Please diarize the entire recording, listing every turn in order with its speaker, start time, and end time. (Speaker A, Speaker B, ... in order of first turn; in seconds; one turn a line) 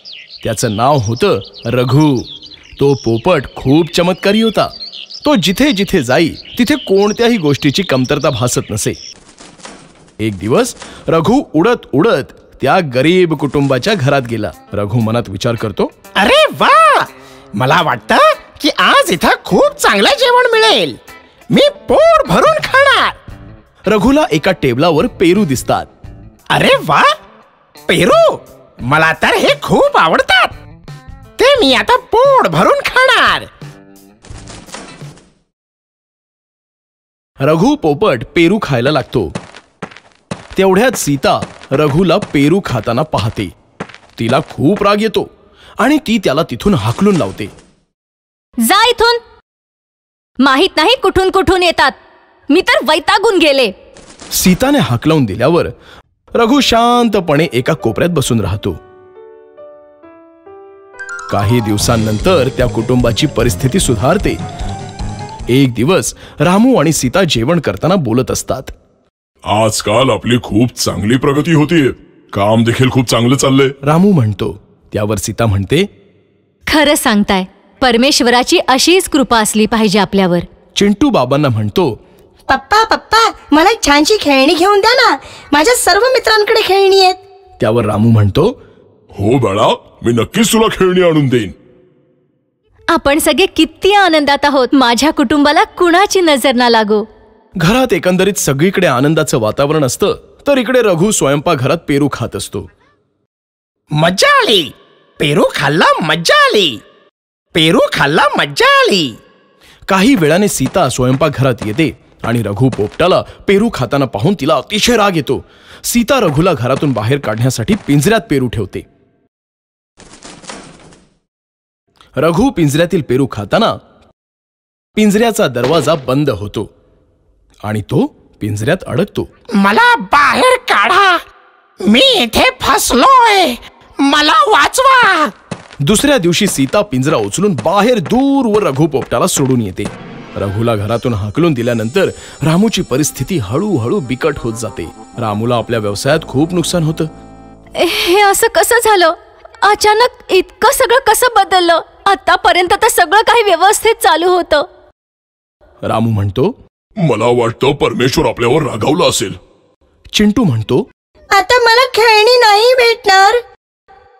Speaker A: 0.4-4.7
Speaker A: 5.2-9.0
Speaker A: 10.2-15.9
Speaker B: 16.2-21.0
Speaker B: 21.5-23.2
Speaker A: 23.9-25.9
Speaker B: 26.5-27.1
Speaker B: 27.9-30.5
Speaker B: 31.4-33.5
Speaker A: 37.4-39.3
Speaker A: 40.6-43.5
Speaker A: 44.2-45.3
Speaker A: 45.8-47.5
Speaker C: 48.6-49.2
Speaker C: 50.4-52.0
Speaker C: 52.5-53.7
Speaker A: 54.3-55.7
Speaker A: 56.4-58.8
Speaker A: 61.3-64.4
Speaker A: 65.5-68.7
Speaker D: 69.5-73.8
Speaker A: 73.8-75.9
Speaker C: 76.7-80.5
Speaker A: 80.8-81.9
Speaker E: 82.5-87.2
Speaker A: 87.6-88.5
Speaker D: 89.2-91.5
Speaker C: 92.9-97.0
Speaker A: 97.6-102.7
Speaker B: 104.0-106.8
Speaker B: 107.5-109.1
Speaker A: 109.9-118.8
Speaker A: 122.2-123.8
Speaker A: 125.0-126.7
Speaker A: 127.6-129.3
Speaker B: 129.6-131.2
Speaker B: 131.8-135.3
Speaker A: 135.8-147.1
Speaker C: 147.8-154.7
Speaker A: 155.8-156.5
Speaker D: 157.0-159.4
Speaker A: 160.1-160.8
Speaker E: 161.3-163.4